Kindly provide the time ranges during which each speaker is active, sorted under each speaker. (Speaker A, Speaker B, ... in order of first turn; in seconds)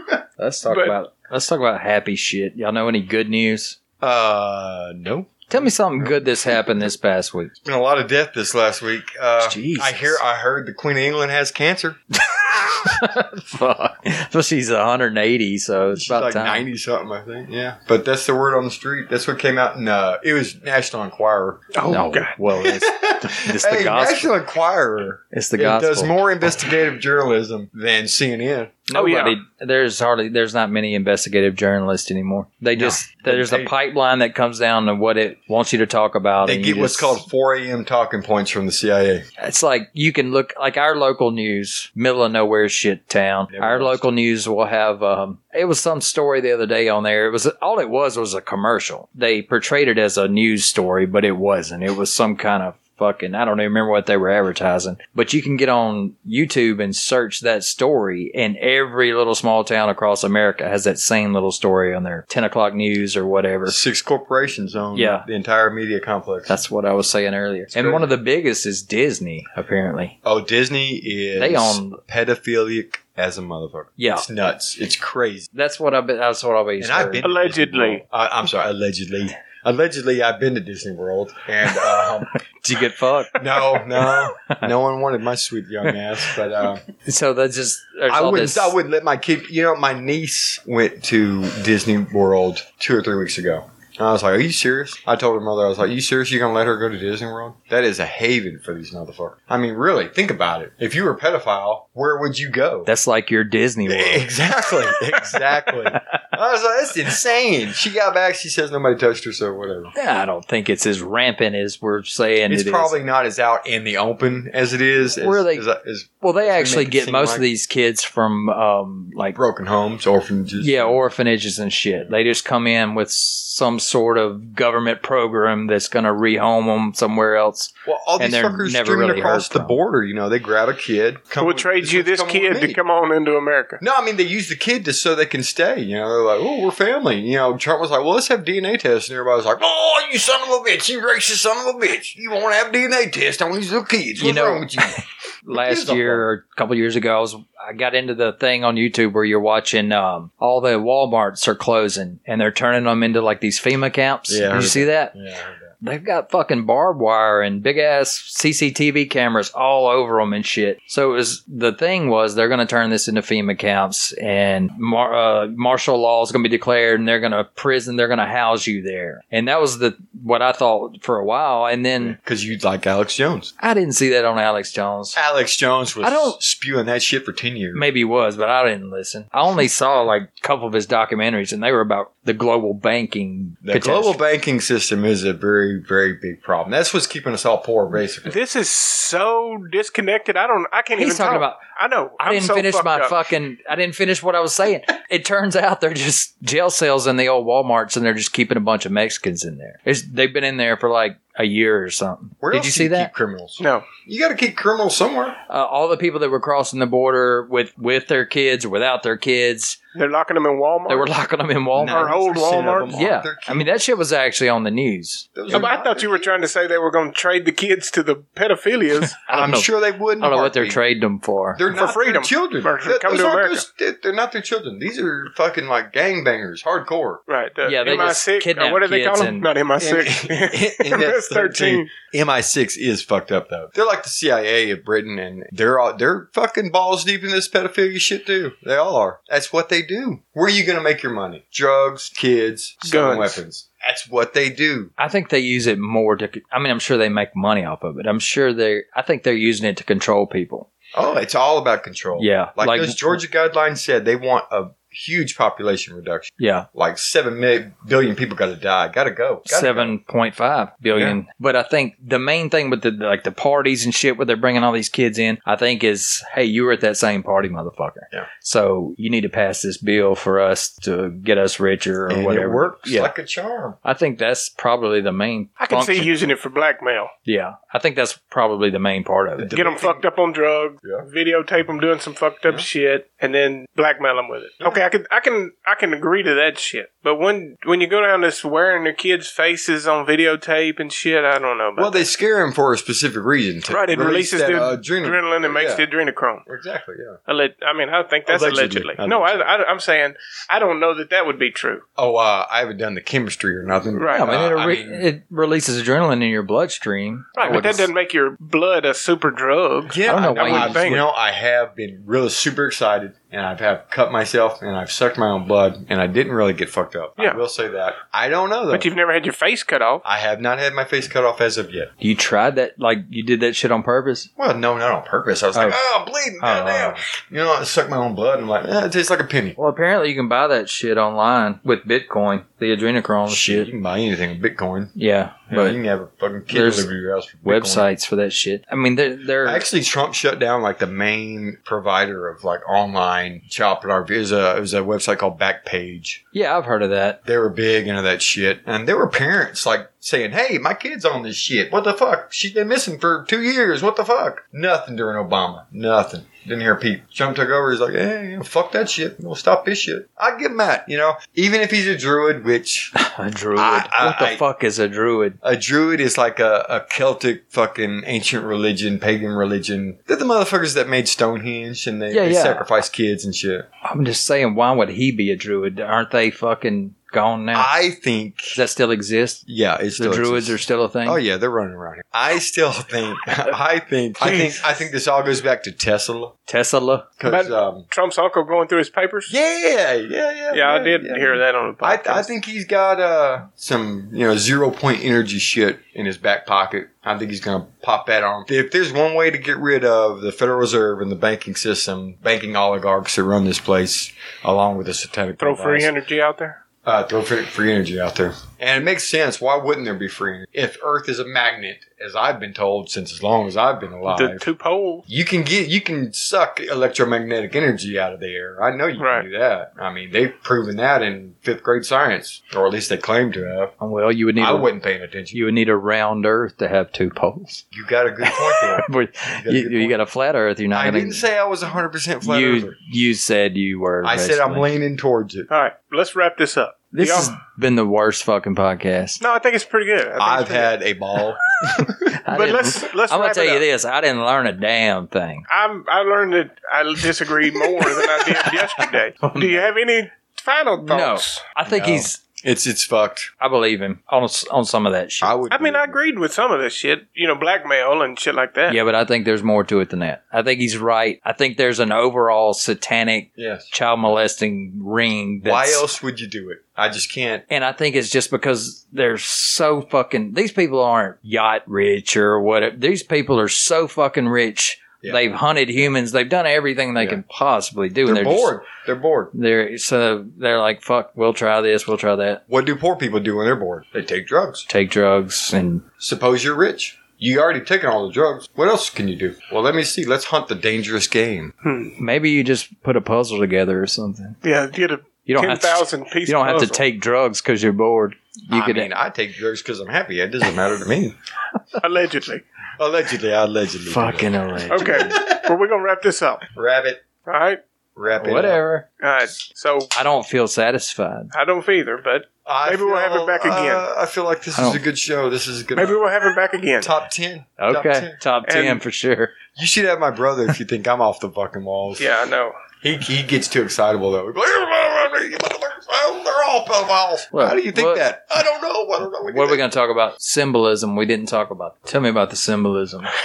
Speaker A: 0.4-3.8, 5.5-7.5, 9.4-10.2, 12.3-16.7, 21.9-24.3, 25.3-26.1, 28.9-37.2, 39.4-63.8, 64.9-65.3, 66.5-70.2, 71.4-72.0, 74.0-74.3, 75.5-77.3, 81.7-84.7, 87.0-88.8, 102.9-104.3, 104.9-106.0, 110.0-112.9, 115.2-115.6, 116.2-119.4, 120.6-129.8, 144.2-155.1, 155.8-172.2, 173.6-175.2, 176.0-176.4, 177.8-184.2, 190.9-191.6, 192.2-203.1, 205.5-209.8, 210.9-212.1, 212.9-215.7, 219.3-221.6, 227.6-229.5, 245.0-250.7, 252.2-253.2, 256.4-256.7, 259.5-273.1, 273.8-276.1, 277.3-279.5, 304.1-307.9, 310.1-310.8, 322.0-324.3, 326.4-327.0, 329.6-333.7, 335.0-335.8, 336.5-336.9, 337.5-339.6, 346.3-347.2, 362.9-365.4, 372.1-372.7, 373.8-377.7, 378.5-379.4, 380.0-381.2, 386.5-387.1, 423.8-424.7, 425.3-427.7, 428.2-431.3, 432.2-434.7, 436.9-439.2, 442.2-445.5, 449.2-449.6, 450.9-452.2, 453.4-455.3, 458.7-465.9, 467.5-478.5, 479.3-482.4, 484.7-485.9, 492.0-494.4, 495.3-498.9, 503.9-505.2, 508.2-508.9, 509.9-511.3, 514.6-514.8, 517.6-519.4, 527.3-528.1, 529.2-533.1
Speaker B: 0.7-1.0, 21.7-22.3, 28.9-29.4, 77.2-78.0, 131.4-133.8, 188.3-193.2, 203.6-203.9, 209.9-211.1, 211.8-213.0, 215.5-219.2, 221.7-223.6, 227.3-231.9, 242.8-243.4, 275.6-277.1, 279.6-292.1, 293.7-296.5, 297.3-301.8, 304.0-304.3, 307.4-311.1, 318.7-320.0, 384.2-384.6, 387.2-389.3, 390.5-392.3, 405.4-406.6, 414.1-415.0, 419.0-419.3, 435.5-437.4, 439.2-440.7, 442.3-443.6, 445.5-451.4, 455.5-458.8, 491.6-491.9, 494.4-496.9, 501.8-502.4, 504.7-506.4, 507.3-507.6, 509.0-509.9, 511.3-513.9, 515.8-516.9, 518.5-518.8, 522.0-522.6
Speaker C: 4.0-6.7, 7.6-12.0, 15.9-21.7, 22.5-28.8, 32.8-33.7, 36.4-39.2, 43.5-44.1, 63.7-66.5, 67.7-68.1, 70.2-75.5, 76.8-82.4, 83.3-86.8, 88.1-102.9, 103.9-109.9, 112.5-117.5, 119.3-121.0, 127.9-132.8, 133.8-145.0, 145.5-146.3, 154.3-155.7, 172.0-173.5, 175.2-177.8, 183.6-188.4, 202.4-205.4, 211.8-213.7, 215.3-216.4, 219.3-220.8, 221.6-227.2, 229.8-244.9, 250.9-259.9, 260.9-261.2, 272.1-273.8, 279.4-280.1, 291.8-295.9, 296.5-297.2, 298.3-299.5, 302.0-305.1, 307.4-307.8, 309.9-318.9, 320.0-321.9, 324.4-329.6, 333.3-334.9, 335.5-337.9, 339.4-346.2, 347.2-362.9, 363.6-364.4, 365.4-373.7, 377.5-378.6, 379.5-386.4, 387.2-387.9, 389.3-405.9, 406.9-414.5, 415.1-423.7, 424.4-425.4, 427.7-430.0, 430.7-432.7, 434.0-435.5, 440.2-442.2, 451.7-453.3, 455.2-456.0, 463.4-463.7, 465.4-467.4, 478.1-479.3, 482.5-484.7, 486.0-491.5, 498.5-501.1, 502.8-505.5, 506.5-507.1, 508.0-508.6, 512.5-516.0, 516.8-518.2, 519.5-522.1, 522.8-529.6